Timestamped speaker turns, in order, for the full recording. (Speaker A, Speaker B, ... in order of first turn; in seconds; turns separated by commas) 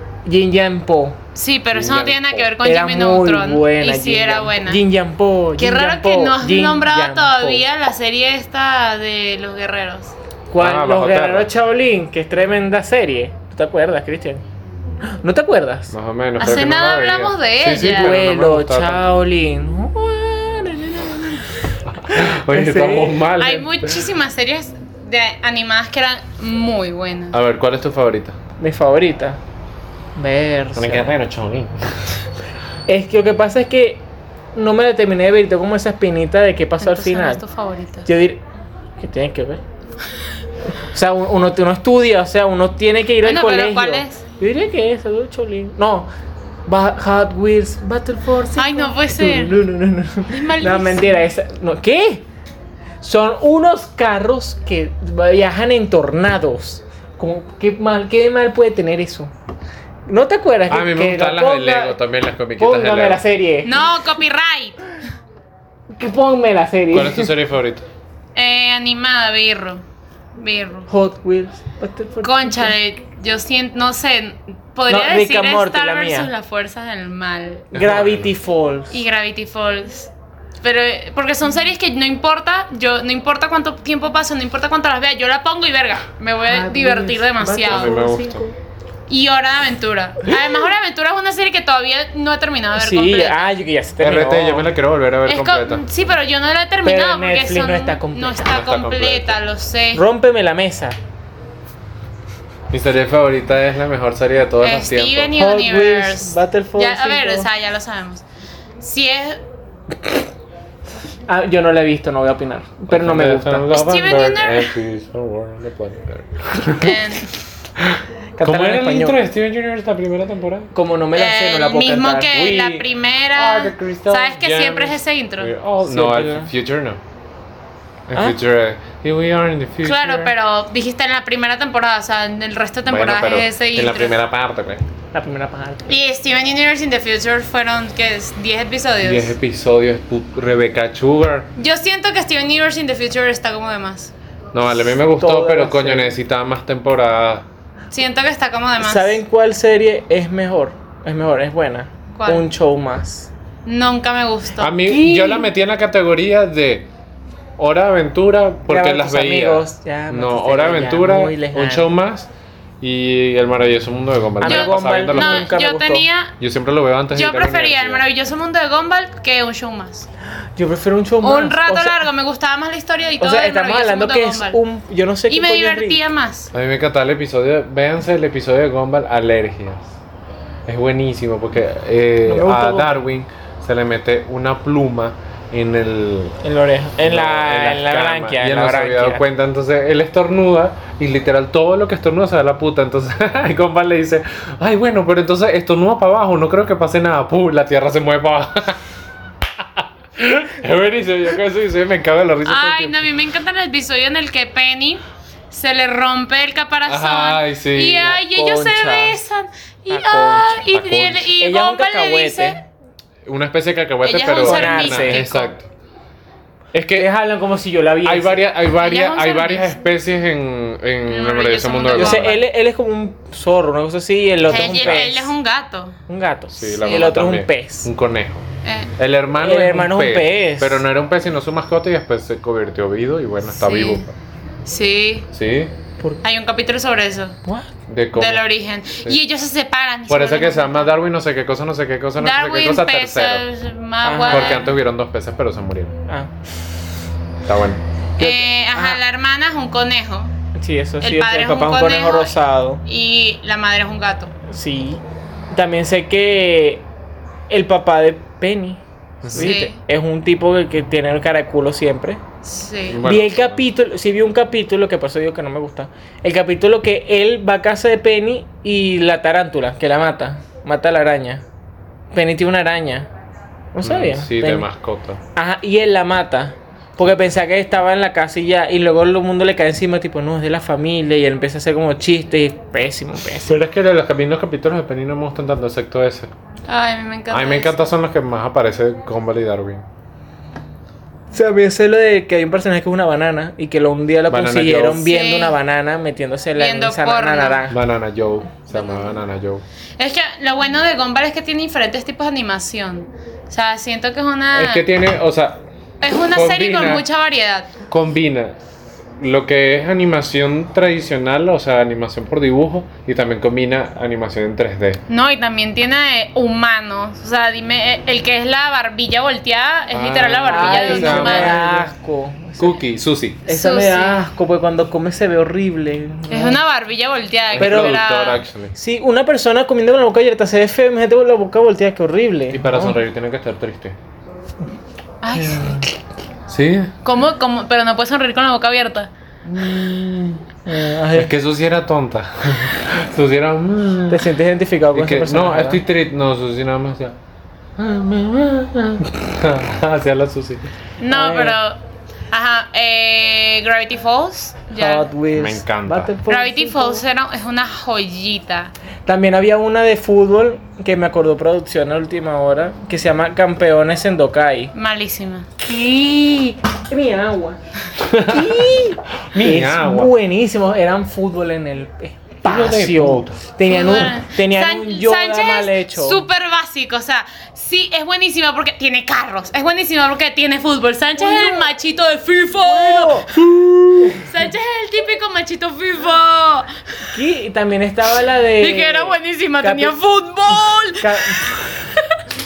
Speaker A: 0.2-1.2, Speaker B: 1.4-4.8, Speaker C: 1.7-2.5, Speaker A: 2.6-7.7, Speaker B: 5.6-10.2, Speaker A: 10.5-14.4, Speaker C: 10.6-11.5, Speaker A: 15.0-15.9, Speaker C: 15.9-19.1, Speaker B: 16.4-18.2, Speaker A: 17.8-23.2, Speaker C: 21.9-24.1, Speaker B: 23.4-27.4, Speaker C: 27.3-28.4, Speaker A: 28.6-29.4, Speaker A: 30.1-31.1, Speaker C: 30.8-32.2, Speaker A: 32.9-34.0, Speaker A: 34.5-37.4, Speaker B: 36.8-38.1, Speaker A: 38.0-38.4, Speaker A: 39.0-39.6, Speaker A: 40.9-46.1, Speaker B: 43.2-44.2, Speaker A: 46.7-52.2, Speaker B: 48.6-49.6, Speaker B: 50.3-51.2, Speaker A: 53.0-59.3, Speaker A: 60.1-62.0, Speaker C: 60.7-63.2, Speaker A: 62.6-63.9, Speaker B: 63.6-64.8, Speaker A: 65.9-67.3, Speaker C: 66.9-67.9, Speaker B: 68.3-69.8, Speaker B: 70.4-70.9, Speaker A: 70.9-72.7, Speaker B: 72.2-77.7, Speaker A: 74.9-76.3, Speaker A: 77.7-79.0, Speaker C: 77.7-78.3, Speaker B: 78.9-80.1, Speaker B: 80.6-88.0, Speaker A: 86.5-88.6, Speaker C: 87.7-88.5, Speaker B: 89.1-93.5, Speaker A: 92.8-94.7, Speaker C: 94.0-95.8, Speaker B: 95.3-100.0, Speaker A: 96.8-98.5, Speaker C: 98.5-99.4, Speaker A: 99.9-101.0, Speaker C: 102.7-105.4, Speaker B: 104.6-108.2, Speaker A: 105.3-107.5, Speaker B: 108.8-109.4, Speaker A: 111.3-113.7, Speaker C: 112.9-117.1, Speaker B: 113.7-114.7, Speaker B: 116.7-117.3, Speaker C: 117.8-120.7, Speaker A: 118.4-119.2, Speaker A: 120.7-122.4, Speaker B: 121.1-125.5, Speaker C: 122.3-127.0, Speaker A: 125.8-126.5, Speaker C: 128.1-130.3, Speaker B: 129.8-134.1, Speaker C: 132.8-134.8, Speaker A: 135.1-136.0, Speaker B: 135.9-139.3, Speaker C: 139.0-141.5, Speaker B: 141.6-144.1, Speaker C: 144.5-147.5, Speaker A: 145.2-146.2, Speaker B: 147.9-149.2, Speaker A: 148.8-153.3, Speaker B: 152.2-152.5, Speaker B: 153.7-154.8, Speaker C: 154.6-156.9, Speaker A: 154.8-155.5, Speaker C: 157.6-165.6, Speaker A: 158.7-161.9, Speaker A: 164.4-166.1, Speaker B: 164.4-166.4, Speaker C: 166.4-168.0, Speaker B: 167.1-170.1, Speaker A: 170.6-172.1, Speaker B: 171.2-174.6, Speaker A: 173.2-176.0, Speaker B: 175.3-176.5, Speaker C: 176.5-180.0, Speaker C: 180.7-186.4, Speaker A: 182.3-183.0, Speaker A: 186.4-189.2, Speaker C: 187.0-198.8, Speaker C: 199.6-203.0, Speaker B: 202.4-212.6, Speaker C: 206.9-208.2, Speaker A: 208.3-209.2, Speaker A: 209.9-210.6, Speaker C: 210.7-211.3, Speaker A: 211.4-212.6, Speaker C: 213.2-215.7, Speaker B: 214.0-215.5, Speaker A: 214.4-215.2, Speaker C: 216.7-217.1, Speaker A: 216.9-218.5, Speaker C: 218.0-222.3, Speaker B: 218.8-219.8, Speaker B: 221.1-222.4, Speaker A: 221.9-225.3, Speaker B: 224.5-226.0, Speaker C: 224.5-225.0, Speaker A: 226.1-227.9, Speaker C: 226.6-234.1, Speaker B: 226.8-227.1, Speaker B: 228.6-228.9, Speaker A: 229.4-230.8, Speaker B: 233.5-234.1, Speaker B: 234.7-235.3, Speaker C: 235.3-235.7, Speaker B: 236.2-237.4, Speaker A: 237.4-237.7, Speaker C: 237.9-238.4, Speaker B: 238.2-240.9, Speaker C: 240.1-243.4, Speaker B: 242.2-244.7, Speaker A: 244.0-244.7, Speaker C: 244.3-246.0, Speaker A: 246.1-246.3, Speaker C: 247.4-247.8, Speaker A: 248.2-249.0, Speaker B: 248.2-250.3, Speaker A: 250.5-252.8, Speaker B: 251.0-252.3, Speaker B: 252.9-254.3, Speaker A: 254.5-256.9, Speaker A: 257.5-262.2, Speaker C: 259.2-259.6, Speaker B: 259.3-259.8, Speaker B: 262.4-263.0, Speaker C: 262.9-263.6, Speaker A: 263.0-271.4, Speaker A: 272.1-273.1, Speaker A: 273.7-274.7, Speaker C: 273.8-275.2, Speaker A: 275.3-283.6, Speaker C: 283.4-286.3, Speaker B: 286.7-287.9, Speaker C: 287.3-289.9, Speaker A: 291.3-297.8, Speaker C: 294.3-295.1, Speaker B: 295.0-295.6, Speaker B: 296.6-297.6, Speaker C: 297.7-299.6, Speaker B: 300.0-304.9, Speaker C: 304.5-305.6, Speaker B: 306.0-307.8, Speaker C: 306.3-307.1, Speaker C: 307.9-308.6, Speaker C: 309.2-315.0, Speaker B: 315.1-321.6, Speaker C: 319.9-321.9, Speaker A: 320.5-322.8, Speaker C: 322.6-323.4, Speaker B: 323.4-324.2, Speaker A: 323.5-326.6, Speaker B: 326.3-328.4, Speaker C: 327.5-328.7, Speaker A: 327.6-328.0, Speaker A: 328.7-333.0, Speaker C: 332.5-334.0, Speaker B: 335.2-335.9, Speaker A: 335.4-335.9, Speaker C: 336.5-336.9, Speaker B: 337.0-339.1, Speaker A: 339.6-341.3, Speaker C: 339.6-340.1, Speaker C: 341.1-344.3, Speaker A: 344.1-345.8, Speaker C: 344.9-347.2, Speaker C: 347.8-350.7, Speaker B: 351.0-351.8, Speaker A: 351.1-351.6, Speaker B: 352.3-355.1, Speaker A: 354.7-357.0, Speaker C: 355.3-356.1, Speaker B: 356.3-358.7, Speaker A: 359.1-364.7, Speaker B: 364.7-365.5, Speaker A: 365.6-367.6, Speaker C: 368.0-370.1, Speaker A: 368.2-376.2, Speaker C: 372.4-373.4, Speaker B: 373.7-383.4, Speaker A: 381.2-381.7, Speaker A: 382.5-383.4, Speaker C: 383.4-384.2, Speaker A: 384.0-384.3, Speaker B: 384.2-386.7, Speaker A: 387.1-390.0, Speaker B: 388.6-392.2, Speaker A: 390.9-391.7